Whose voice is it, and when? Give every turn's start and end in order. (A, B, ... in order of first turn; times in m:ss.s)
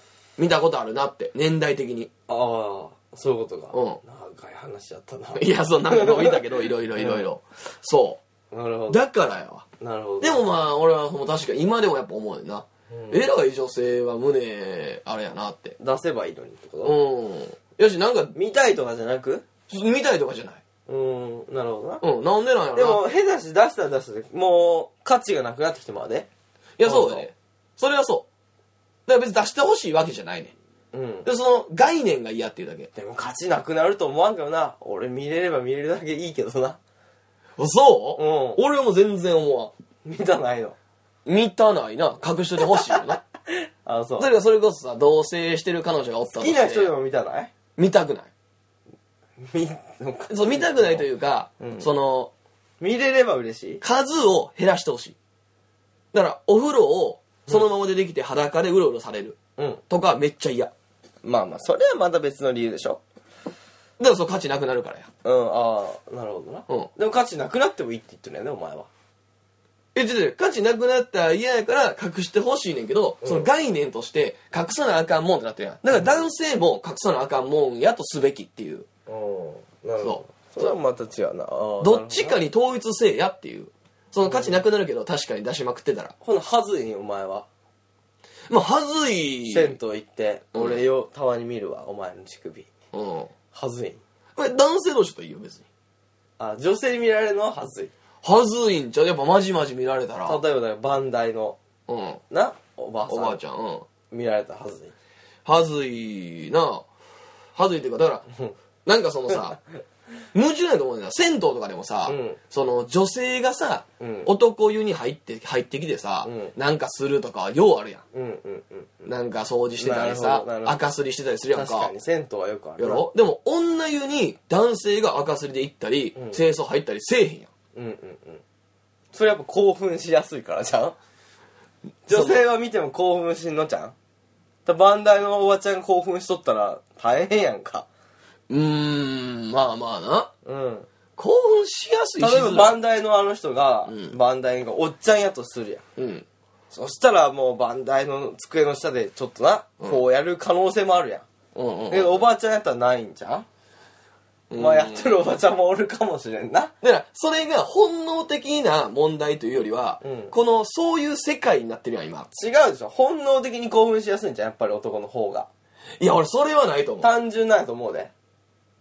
0:00.4-0:02.1 A
0:02.3-0:06.4 B
0:03.7-0:04.0 A
0:05.4-0:08.2 A
0:07.0-0:07.3 B
0:08.5-0:09.0 B
0:08.9-0:09.7 A
0:09.8-0:10.4 B
0:10.2-0:15.8 A
0:12.9-0:13.3 B
0:15.8-0:17.0 B
0:16.8-0:18.3 A
0:18.4-0:19.4 B
0:19.7-0:20.6 A
0:20.9-0:22.0 B
0:22.0-0:23.0 A
0:22.8-0:26.3 B
0:26.8-0:28.3 A
0:26.8-0:27.3 B
0:29.1-0:30.5 A
0:30.9-0:31.3 B
0:31.2-0:32.9 A
0:33.0-0:36.8 B
0:37.6-0:39.7 A
0:38.2-0:38.6 B
0:40.0-0:40.8 B
0:41.2-0:43.2 A
0:42.8-0:44.3 B
0:44.2-0:46.9 A
0:46.3-0:47.5 B
0:47.8-0:48.3 A
0:49.4-0:51.0 B
0:50.3-0:52.3 A
0:51.6-0:51.9 B
0:52.8-0:53.8 B
0:53.8-0:55.2 A
0:56.1-0:59.4 A
0:59.6-0:59.8 B
0:59.9-1:00.7 A
1:01.2-1:03.0 B
1:04.0-1:05.1 A
1:05.2-1:08.9 B
1:10.0-1:18.9 A
1:13.2-1:13.5 B
1:19.1-1:22.4 B
1:20.0-1:20.8 A
1:21.8-1:26.1 A
1:24.2-1:24.6 B
1:26.2-1:27.5 B
1:28.5-1:29.8 A
1:29.5-1:32.7 B
1:30.6-1:30.8 A
1:32.9-1:33.3 A
1:33.5-1:34.0 B
1:34.4-1:35.7 A
1:36.4-1:37.9 B
1:38.2-1:40.4 A
1:40.3-1:41.6 B
1:41.9-1:42.2 A
1:42.3-1:43.4 B
1:43.1-1:43.9 A
1:44.1-1:44.9 B
1:45.4-1:46.9 A
1:47.6-1:48.3 A
1:48.8-1:49.6 A
1:50.3-1:58.0 A
1:52.1-1:52.4 B
1:54.0-1:54.3 B
1:56.2-1:56.6 B
1:58.1-1:59.1 B
1:59.1-2:01.9 A
1:59.8-2:00.8 B
2:01.5-2:03.1 B
2:02.8-2:07.5 A
2:06.2-2:06.4 B
2:07.8-2:08.4 B
2:09.1-2:11.0 B
2:12.1-2:12.4 A
2:12.1-2:14.0 B
2:14.7-2:17.9 B
2:18.5-2:20.3 A
2:20.4-2:20.9 B
2:21.2-2:22.8 A
2:22.2-2:25.8 B
2:23.9-2:24.2 A
2:26.0-2:26.2 A
2:26.7-2:31.3 B
2:31.6-2:32.2 A
2:31.9-2:33.5 B
2:34.5-2:35.2 A
2:34.6-2:36.7 B
2:36.8-2:42.3 A
2:40.0-2:40.3 B
2:42.3-2:45.5 B
2:46.0-2:47.1 A
2:47.0-2:48.1 B